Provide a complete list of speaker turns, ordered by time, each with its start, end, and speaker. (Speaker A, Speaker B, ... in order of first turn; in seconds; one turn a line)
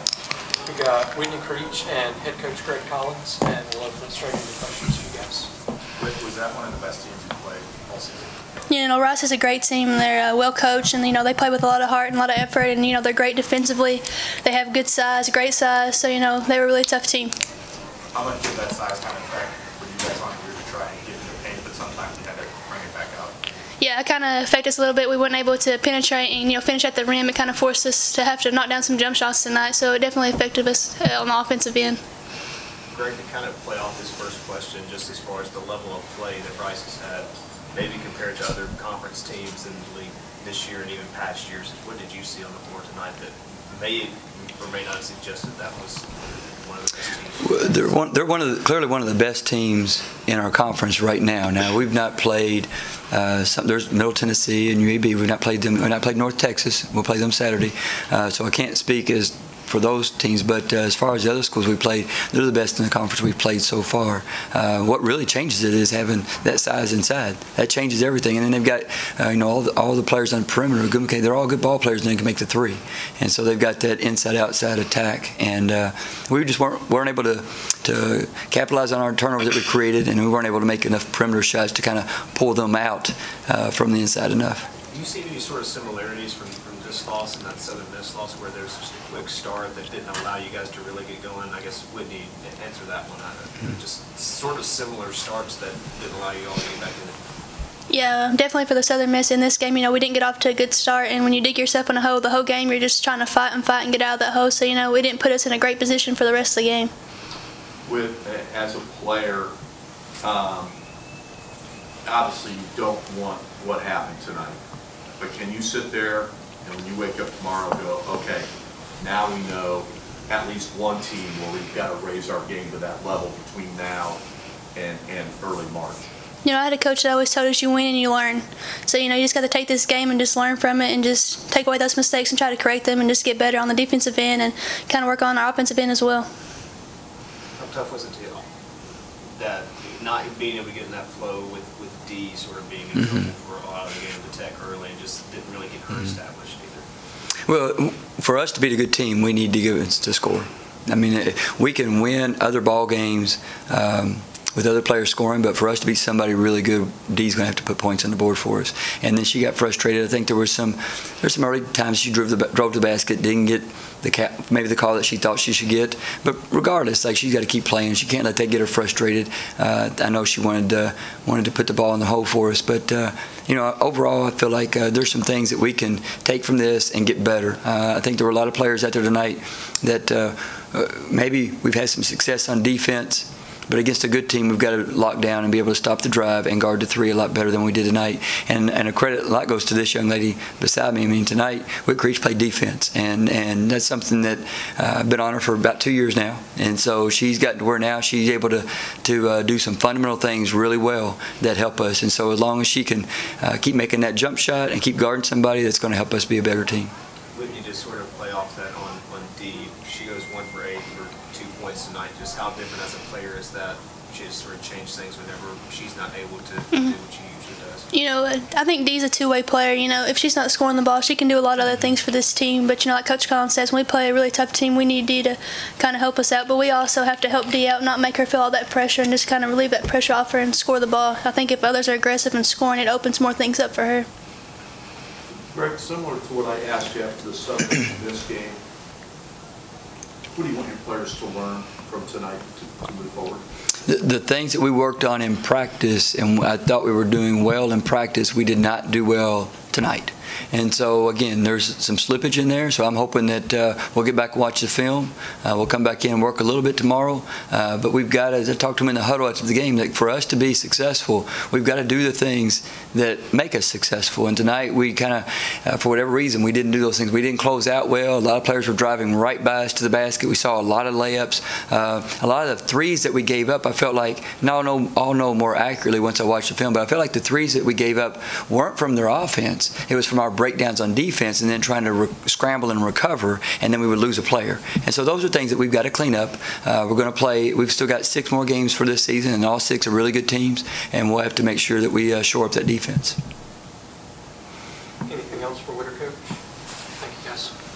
Speaker A: 0.7-5.5
Speaker B: 6.0-8.4
Speaker C: 8.7-17.3
Speaker B: 18.1-23.4
Speaker C: 23.8-32.0
Speaker D: 32.9-47.9
Speaker E: 47.4-84.6
Speaker D: 84.9-97.2
Speaker C: 97.9-106.9
Speaker F: 107.8-109.5
Speaker F: 110.2-110.7
Speaker F: 112.0-114.6
Speaker F: 115.2-118.5
Speaker F: 119.0-124.2
Speaker F: 124.7-126.1
Speaker C: 126.4-136.3
Speaker D: 137.6-138.4
Speaker D: 139.3-146.8
Speaker E: 147.5-206.9
Speaker D: 207.3-217.9
Speaker C: 217.9-234.1
Speaker F: 235.4-238.6
Speaker F: 240.3-243.4
Speaker E: 243.8-293.2
Speaker A: 295.0-296.2
Speaker A: 297.0-297.5